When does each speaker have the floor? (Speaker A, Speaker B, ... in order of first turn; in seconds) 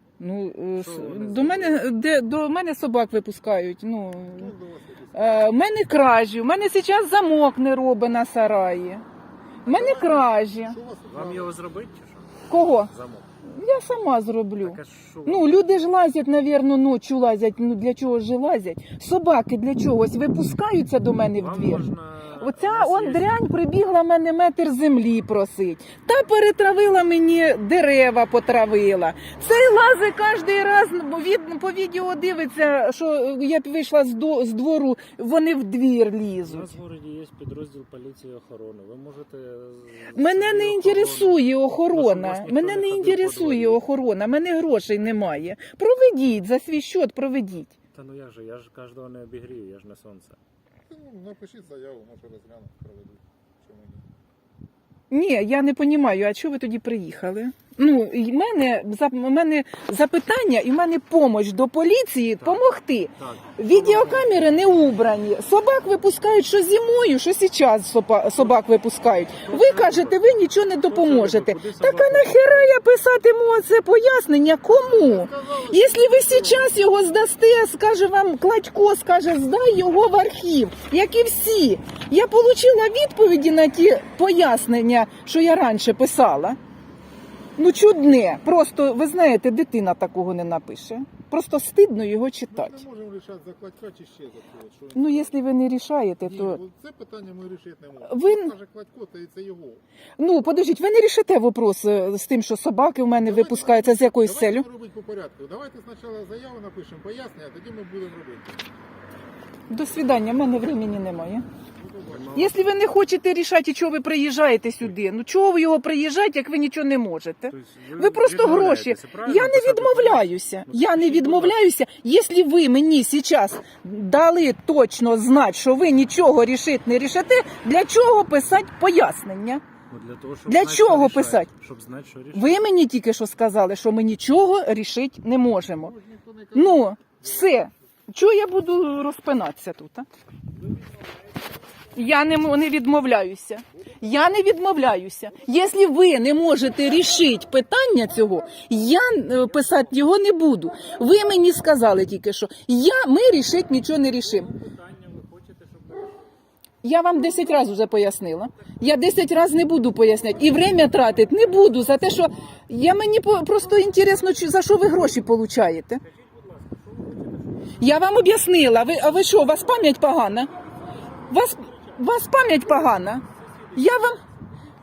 Speaker A: 0.2-4.5, 5.1-9.0, 9.6-10.8, 12.5-12.9, 13.4-36.7, 40.1-47.7, 55.1-86.6, 87.6-92.8, 94.9-96.6, 98.0-98.5, 100.2-104.7, 109.7-111.4, 112.3-129.6, 130.4-131.5, 132.3-135.9, 136.5-140.1, 141.9-154.5, 156.8-166.0, 167.8-170.5, 171.3-174.2
Speaker B: 0.8-1.9, 11.1-13.3, 14.6-15.8, 21.3-23.4, 29.4-30.1, 36.5-43.8, 47.9-50.4, 62.4-62.6, 63.2-64.5, 68.4-68.6, 69.3-70.2, 70.8-72.7, 112.1-112.8, 117.5-121.6, 129.9-132.7, 140.7-141.1, 154.0-156.3, 166.1-168.0, 172.9-174.6
Speaker C: 4.3-5.4, 9.6-11.5, 50.9-54.0, 74.7-76.8, 92.5-95.4, 96.2-99.8, 103.2-108.6, 111.7-112.7, 135.8-137.7